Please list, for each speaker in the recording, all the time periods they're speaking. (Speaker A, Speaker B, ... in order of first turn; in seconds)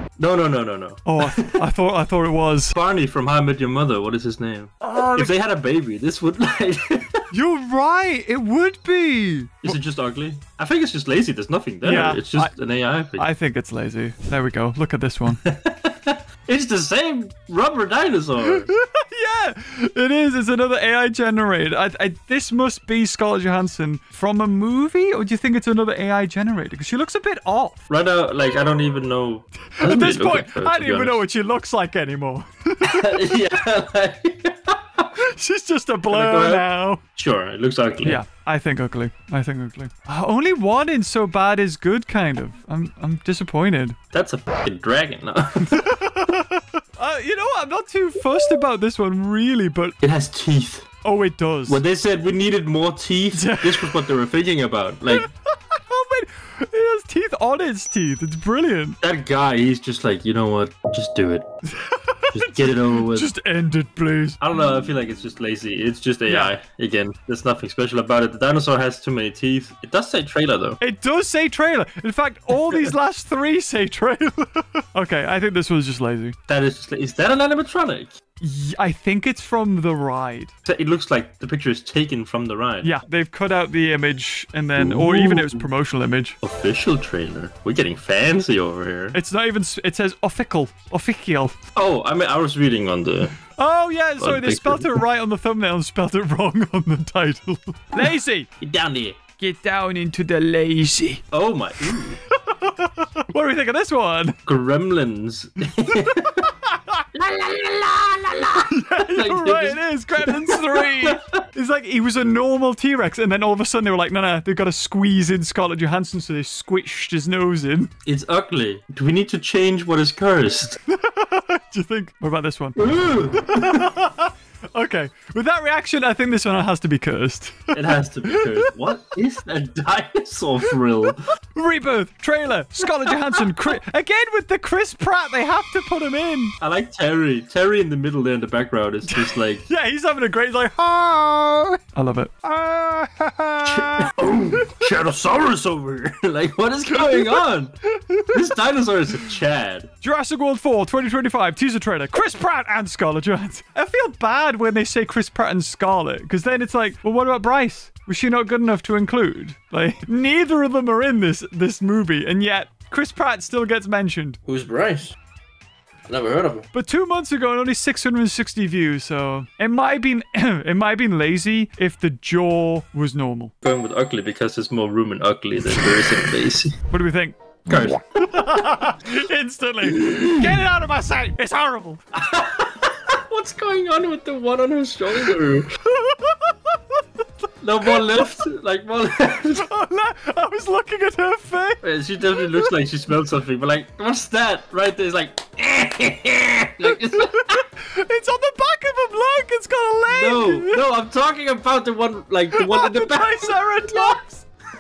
Speaker A: 0.2-1.6, 2.7-7.3, 9.6-13.3, 15.4-18.7, 27.9-31.2, 32.8-35.1, 36.1-38.2, 44.1-46.0, 50.0-50.9, 51.7-55.3, 59.0-61.5, 62.3-63.3, 64.4-70.8, 76.5-78.2, 80.7-83.0, 84.8-85.6, 86.4-89.2, 91.8-93.4, 94.2-95.0, 98.6-99.2, 101.3-102.2, 104.5-106.5, 107.1-111.4, 118.0-120.8, 122.8-123.9, 127.7-131.3, 136.6-139.6, 143.6-147.8, 148.3-149.9, 164.4-165.2, 166.1-166.7, 173.6-176.8, 177.7-178.7, 180.0-180.4, 182.1-185.7, 187.6-189.7, 191.8-197.6, 200.1-204.2
Speaker B: 1.0-2.7, 4.8-5.3, 7.3-9.8, 11.8-12.5, 13.2-15.4, 18.4-27.8, 29.7-33.4, 35.1-37.0, 38.0-44.0, 45.6-49.9, 51.0-51.8, 53.3-54.0, 55.1-59.0, 61.6-64.4, 66.3-66.5, 70.8-76.4, 78.4-80.5, 82.8-86.4, 89.1-91.6, 93.5-98.5, 99.4-101.2, 101.8-104.4, 105.9-107.2, 108.3-117.9, 120.8-122.8, 123.3-128.7, 131.5-136.6, 139.1-144.9, 146.9-148.4, 150.0-164.4, 166.7-173.5, 176.9-182.0, 185.3-188.3, 189.5-192.7, 196.8-200.8, 202.5-204.5